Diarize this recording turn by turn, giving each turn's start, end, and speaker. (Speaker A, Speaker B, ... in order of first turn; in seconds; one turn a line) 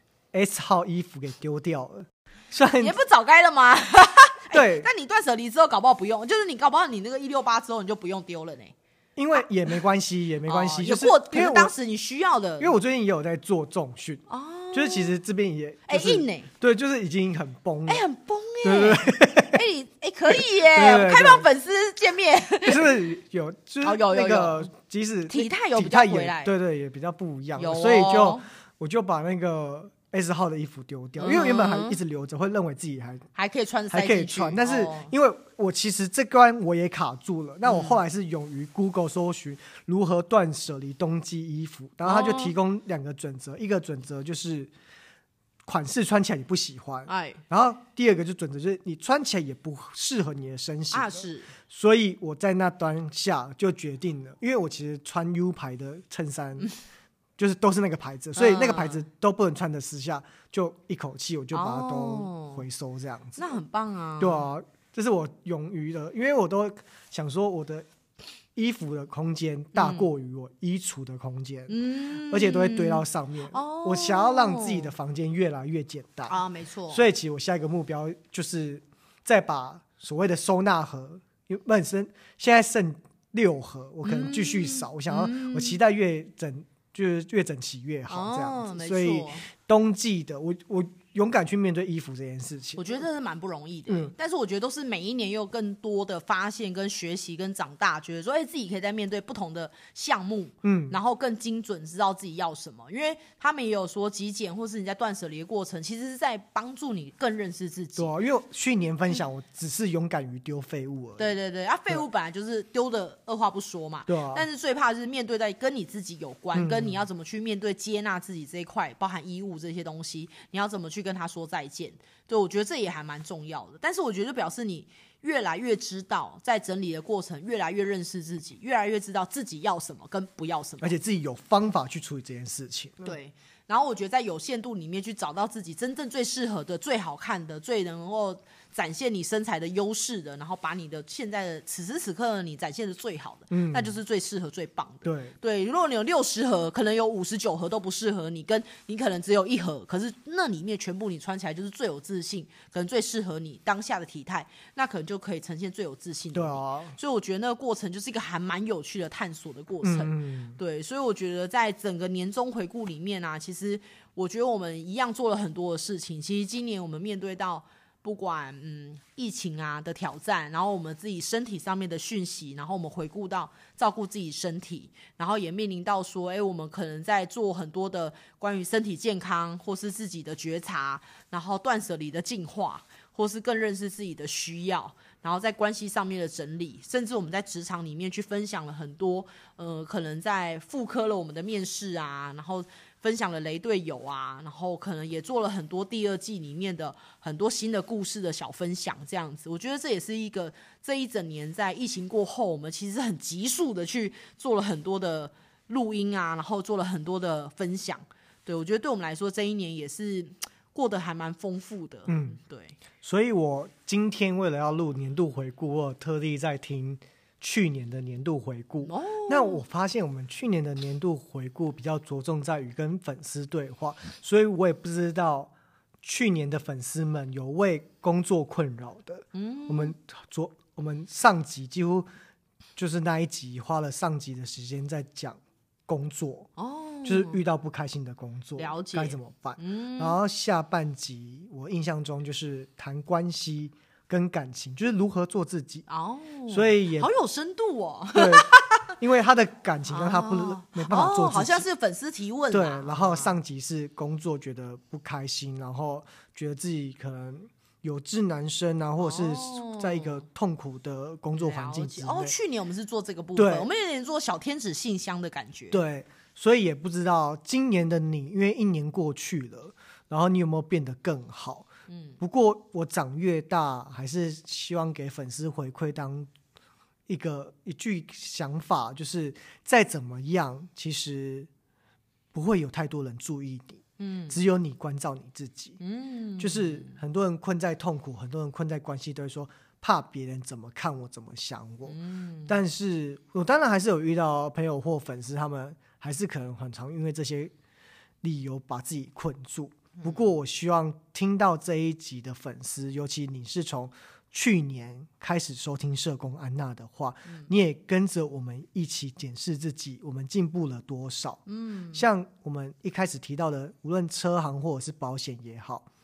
Speaker A: 0.3-3.0
Speaker B: 2.8-8.7
Speaker A: 4.5-4.9
Speaker A: 9.2-11.7
Speaker B: 10.5-12.8
Speaker A: 12.6-18.0
Speaker B: 14.3-15.2
Speaker B: 15.9-16.5
Speaker B: 17.9-23.0
Speaker A: 18.6-19.6
Speaker A: 20.7-21.5
Speaker A: 22.6-33.3
Speaker B: 23.8-24.7
Speaker B: 25.3-26.5
Speaker B: 27.6-28.4
Speaker B: 31.2-32.0
Speaker B: 33.4-35.1
Speaker A: 33.9-44.7
Speaker B: 37.6-38.0
Speaker B: 42.0-42.5
Speaker A: 45.7-56.7
Speaker B: 47.1-47.4
Speaker B: 50.9-51.5
Speaker A: 57.4-63.4
Speaker B: 58.4-59.0
Speaker B: 61.5-62.6
Speaker B: 63.4-64.5
Speaker A: 64.2-67.9
Speaker A: 68.6-71.8
Speaker B: 69.8-70.1
Speaker B: 71.7-75.0
Speaker A: 72.3-92.9
Speaker B: 76.3-77.1
Speaker B: 84.0-85.8
Speaker B: 88.1-89.5
Speaker B: 92.8-108.1
Speaker A: 93.9-94.1
Speaker A: 100.6-101.0
Speaker A: 108.0-111.3
Speaker B: 111.2-131.0
Speaker A: 114.1-114.5
Speaker A: 116.5-117.0
Speaker A: 130.8-133.2
Speaker B: 133.0-212.8
Speaker A: 143.5-144.0
Speaker A: 145.0-145.3
Speaker A: 156.3-157.0
Speaker A: 159.8-160.6
Speaker A: 212.1-212.4
Speaker A: 213.0-225.5
Speaker B: 218.8-219.6
Speaker A: 226.0-232.1
Speaker B: 229.3-229.9
Speaker A: 232.8-236.5
Speaker B: 236.6-237.4
Speaker A: 237.1-245.9
Speaker B: 238.6-240.2
Speaker B: 245.9-248.8
Speaker A: 246.5-247.1
Speaker A: 248.2-251.7
Speaker B: 249.9-253.4
Speaker A: 252.5-262.3
Speaker B: 259.0-260.2
Speaker B: 261.3-265.8
Speaker A: 263.4-263.7
Speaker A: 265.7-271.7
Speaker B: 271.9-272.2
Speaker A: 272.2-276.3
Speaker A: 277.1-281.5
Speaker A: 282.3-285.8
Speaker B: 284.0-284.4
Speaker B: 285.8-286.9
Speaker A: 286.4-297.5
Speaker B: 291.9-292.6
Speaker A: 298.2-315.9
Speaker B: 300.0-300.3
Speaker B: 311.5-312.1